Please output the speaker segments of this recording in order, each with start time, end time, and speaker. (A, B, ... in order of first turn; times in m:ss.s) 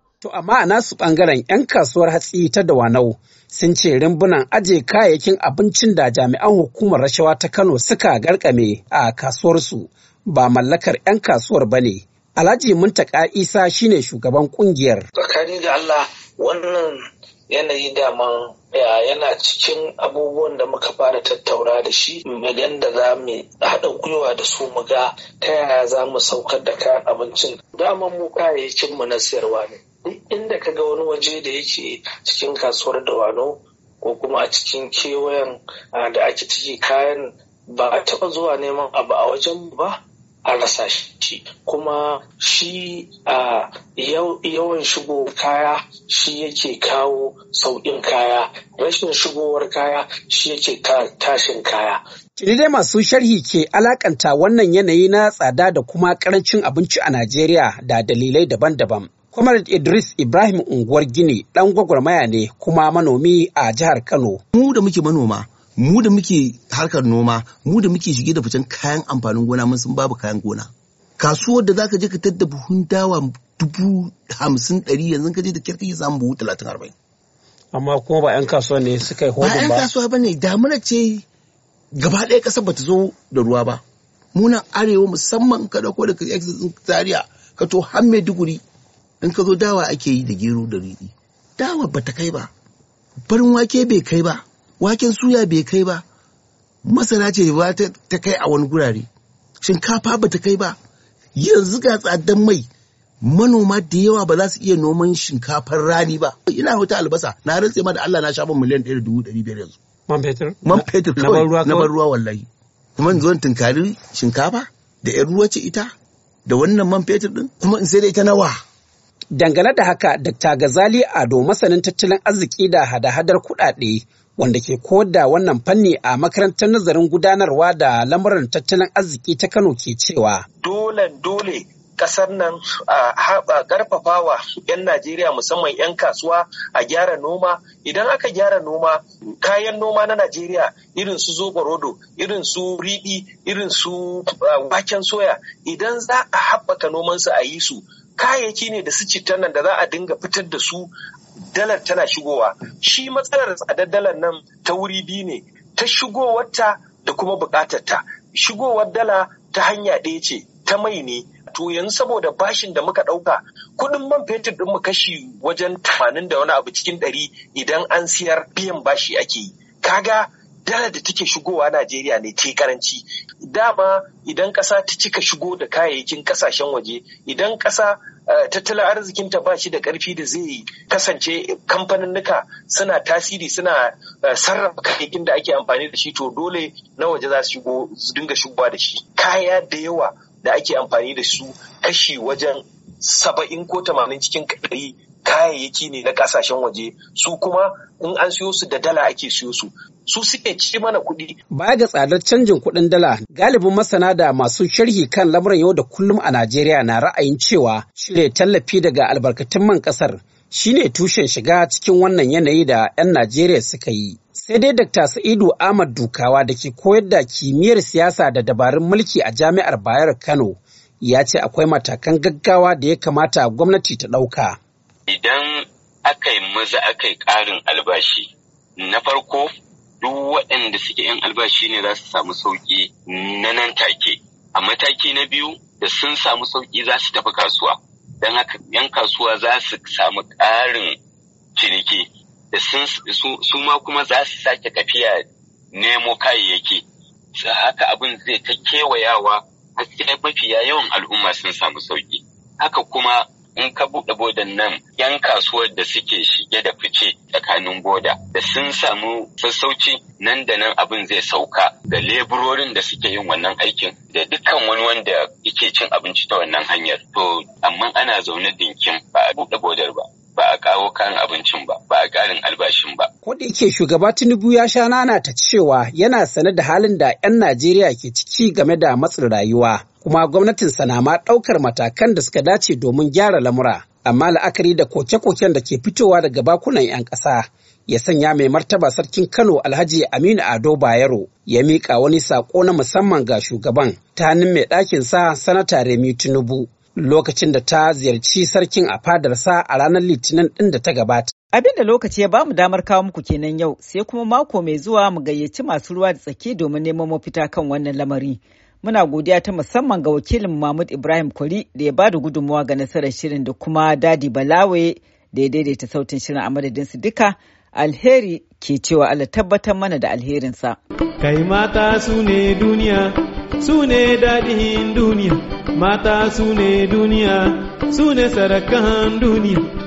0:00.2-0:15.0 A
0:15.2-0:52.0 B
0:52.4-1:04.4 A
1:04.5-1:16.9 C
1:17.7-1:19.9 A
1:19.4-1:21.2 C
1:22.0-1:23.8 C
1:24.4-1:28.6 C
1:29.2-1:32.5 C
1:33.3-1:36.0 C
1:36.8-1:39.1 C
1:39.6-1:40.8 C
1:41.4-1:42.6 C
1:43.2-1:49.8 C
1:50.1-1:51.9 A
1:50.6-1:52.4 C
1:53.0-1:55.9 C
1:56.4-1:58.6 C
1:59.3-2:10.4 A
2:10.6-2:30.9 D
2:31.6-3:03.8 D
3:04.3-3:21.3 D
3:21.5-3:44.6 A
3:45.1-3:49.5 E
3:50.0-4:01.0 E
4:01.6-4:06.8 E
4:07.4-4:33.1 E
4:33.2-5:01.3 A
5:01.5-5:20.8 F
5:21.2-5:29.6 G